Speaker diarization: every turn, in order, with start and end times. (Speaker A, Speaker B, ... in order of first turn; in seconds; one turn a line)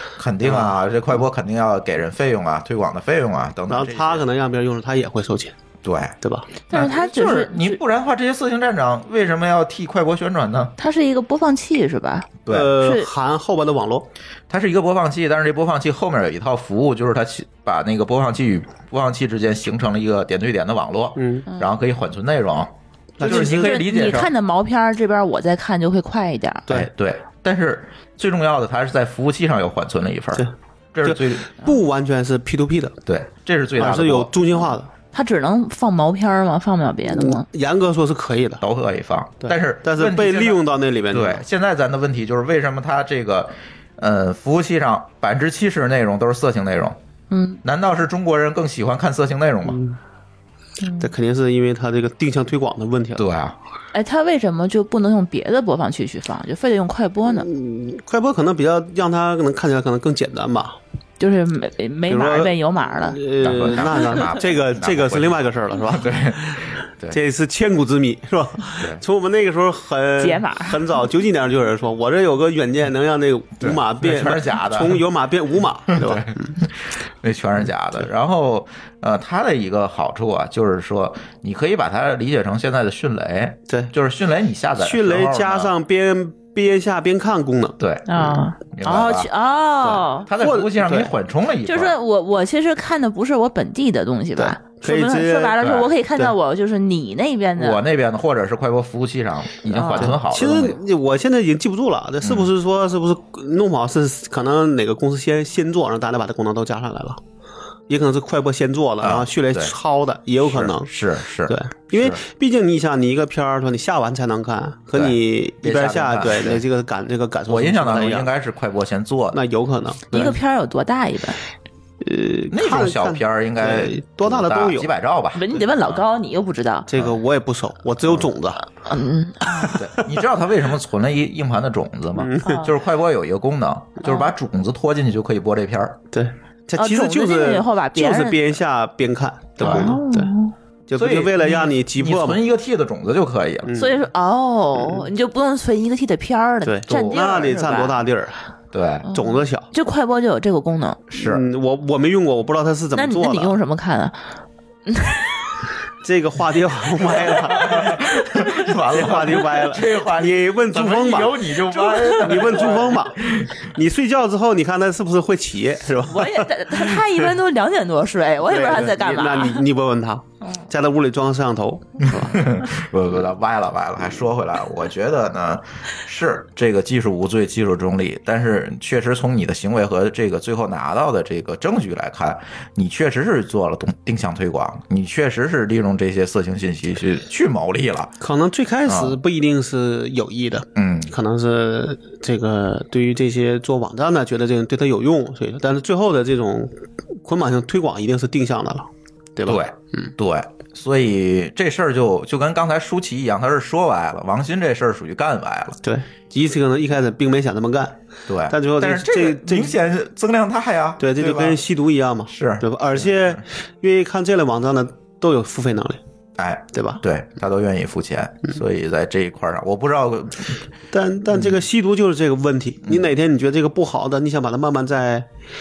Speaker A: 0.2-4.3
Speaker B: 0.4-0.8
Speaker B: 3.7-5.5
Speaker A: 5.8-6.2
Speaker B: 6.2-6.5
Speaker C: 6.7-7.8
Speaker A: 6.7-10.8
Speaker C: 10.8-13.1
Speaker A: 12.5-12.8
Speaker B: 12.5-14.1
Speaker A: 14.5-24.3
Speaker B: 21.2-21.5
Speaker B: 23.2-23.8
Speaker C: 23.2-26.7
Speaker A: 26.7-31.5
Speaker B: 31.0-33.0
Speaker A: 33.1-34.7
Speaker B: 33.8-34.9
Speaker C: 35.1-37.5
Speaker B: 37.1-38.6
Speaker A: 38.6-47.0
Speaker B: 39.4-41.4
Speaker C: 47.3-47.6
Speaker A: 47.6-49.8
Speaker B: 49.7-50.0
Speaker C: 50.8-51.1
Speaker B: 51.0-53.2
Speaker A: 53.2-53.6
Speaker C: 53.9-57.5
Speaker B: 57.3-60.8
Speaker C: 61.2-63.2
Speaker B: 62.1-76.6
Speaker A: 63.4-67.2
Speaker C: 70.2-70.8
Speaker A: 73.6-75.0
Speaker A: 75.9-85.7
Speaker B: 84.8-88.2
Speaker A: 87.8-92.0
Speaker C: 88.1-90.3
Speaker B: 90.4-91.1
Speaker C: 91.7-97.8
Speaker B: 94.4-95.6
Speaker A: 95.6-95.9
Speaker A: 97.6-100.8
Speaker C: 99.7-100.1
Speaker B: 99.8-107.2
Speaker A: 102.2-102.5
Speaker B: 107.9-110.9
Speaker A: 109.0-109.8
Speaker A: 110.4-112.2
Speaker B: 111.5-118.3
Speaker A: 114.9-116.6
Speaker A: 117.5-119.4
Speaker B: 119.3-120.4
Speaker C: 120.1-121.4
Speaker B: 122.0-124.9
Speaker A: 122.5-126.0
Speaker C: 125.3-126.9
Speaker B: 126.9-128.6
Speaker C: 128.9-129.8
Speaker A: 129.8-136.0
Speaker B: 132.2-132.6
Speaker C: 132.4-132.7
Speaker B: 136.1-140.3
Speaker C: 136.8-138.6
Speaker A: 139.6-139.9
Speaker C: 139.6-140.5
Speaker B: 140.9-142.4
Speaker A: 141.0-143.7
Speaker B: 143.7-143.9
Speaker C: 143.8-148.0
Speaker B: 144.8-145.0
Speaker B: 146.7-148.4
Speaker A: 146.9-147.4
Speaker A: 148.7-149.1
Speaker C: 149.1-151.0
Speaker B: 149.1-149.7
Speaker A: 151.1-151.4
Speaker B: 151.2-153.6
Speaker C: 152.9-154.2
Speaker C: 154.9-155.5
Speaker B: 156.0-157.8
Speaker A: 157.5-163.6
Speaker B: 158.9-161.4
Speaker C: 161.8-162.5
Speaker B: 162.2-167.0
Speaker C: 166.0-169.7
Speaker B: 168.4-172.4
Speaker C: 170.4-170.7
Speaker A: 172.1-188.2
Speaker B: 188.2-200.1
Speaker A: 188.9-189.2
Speaker A: 190.8-191.1
Speaker A: 199.4-205.8
Speaker B: 205.8-208.0
Speaker A: 208.3-211.6
Speaker B: 208.5-209.8
Speaker B: 211.0-216.0
Speaker A: 212.3-213.4
Speaker A: 216.4-220.6
Speaker B: 216.7-217.0
Speaker B: 220.9-225.3